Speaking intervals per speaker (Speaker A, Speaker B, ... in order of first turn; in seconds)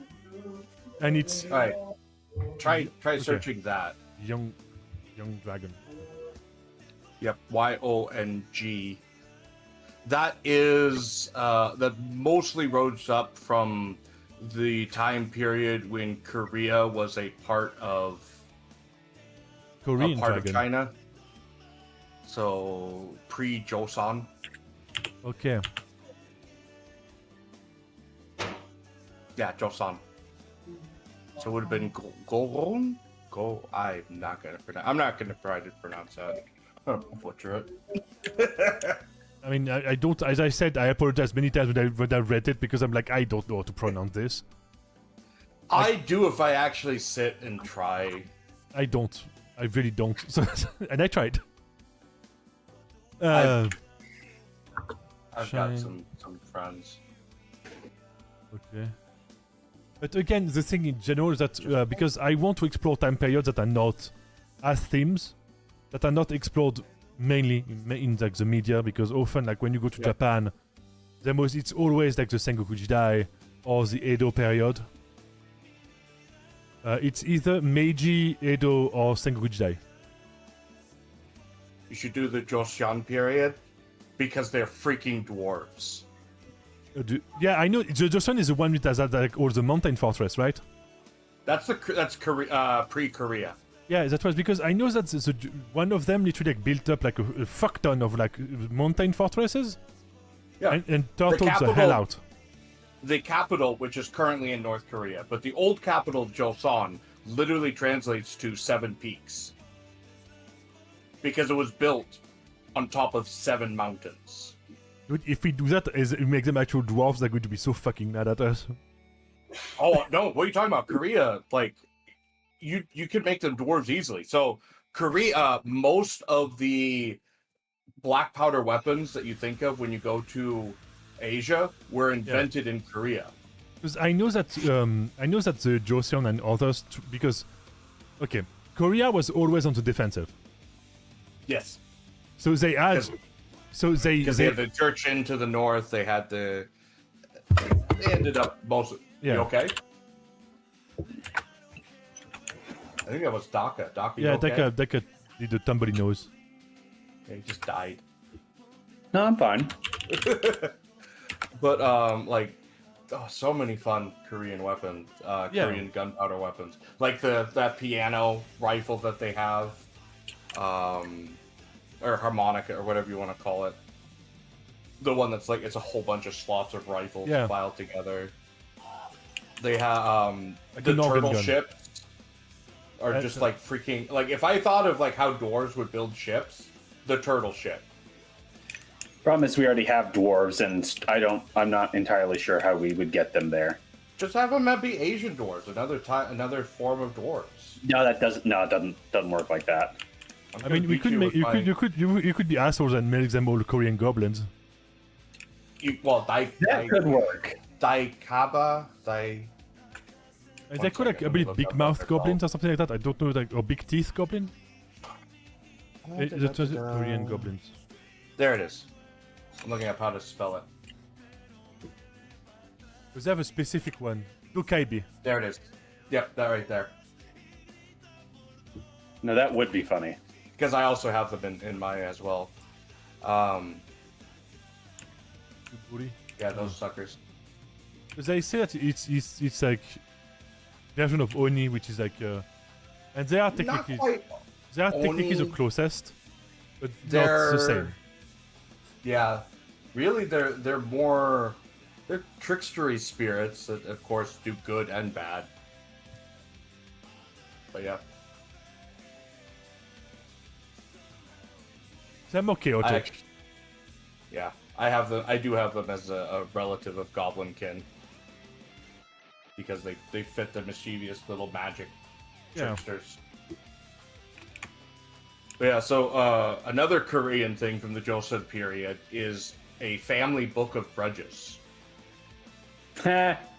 Speaker A: 1.0-1.5, 2.7-3.5, 4.2-4.6, 5.2-5.8, 19.8-20.6, 25.2-25.6, 39.4-44.5, 48.7-51.4, 53.2-53.8, 55.4-55.9, 58.5-59.0, 60.0-65.4, 65.9-70.5, 71.2-74.8, 76.8-79.8, 87.0-90.6, 93.9-99.8, 100.7-102.2, 115.1-118.8, 133.8-137.5, 138.2-140.3, 142.4-143.1, 143.7-144.6, 149.2-149.5, 154.2-156.3, 165.5-165.9, 177.2-177.5, 180.8-181.6, 183.1-183.5, 200.6-204.5, 210.7-214.5, 216.2-217.7, 223.1-225.1, 235.7-236.7, 238.2-240.0, 240.9-242.5, 243.2-244.1, 244.7-246.2, 246.8-248.0, 262.3-263.1
Speaker B: 1.5-1.8, 2.6-4.0, 7.2-9.0, 10.1-18.4, 20.0-20.9, 22.2-24.3, 29.4-30.0, 31.4-39.0, 45.7-48.3, 53.3-53.7, 55.3-57.0, 81.9-83.6, 84.2-86.1, 91.5-93.6, 100.6-102.0, 103.0-109.5, 111.2-112.2, 112.8-114.6, 119.8-121.8, 122.6-127.2, 128.0-133.3, 141.5-141.8, 144.2-146.7, 147.6-149.8, 153.1-154.7, 157.3-158.0, 160.1-160.7, 161.6-162.6, 163.1-169.8, 170.5-171.4, 172.0-173.8, 175.0-178.3, 179.6-182.0, 183.0-187.9, 194.2-197.8, 200.5-201.7, 205.8-207.2, 207.8-209.5, 210.7-212.4, 216.0-217.5, 218.4-218.9, 219.6-220.7, 225.2-226.9, 230.6-232.5, 233.2-233.8, 236.4-237.2, 243.5-244.3, 244.9-245.6, 247.1-247.9, 249.0-255.5, 257.7-258.0, 262.8-263.2, 264.3-267.9, 269.6-271.9, 272.5-273.2, 275.6-281.6
Speaker C: 159.1-159.8, 189.2-193.8, 197.8-200.0, 206.6-207.6, 229.2-230.2, 283.0-283.5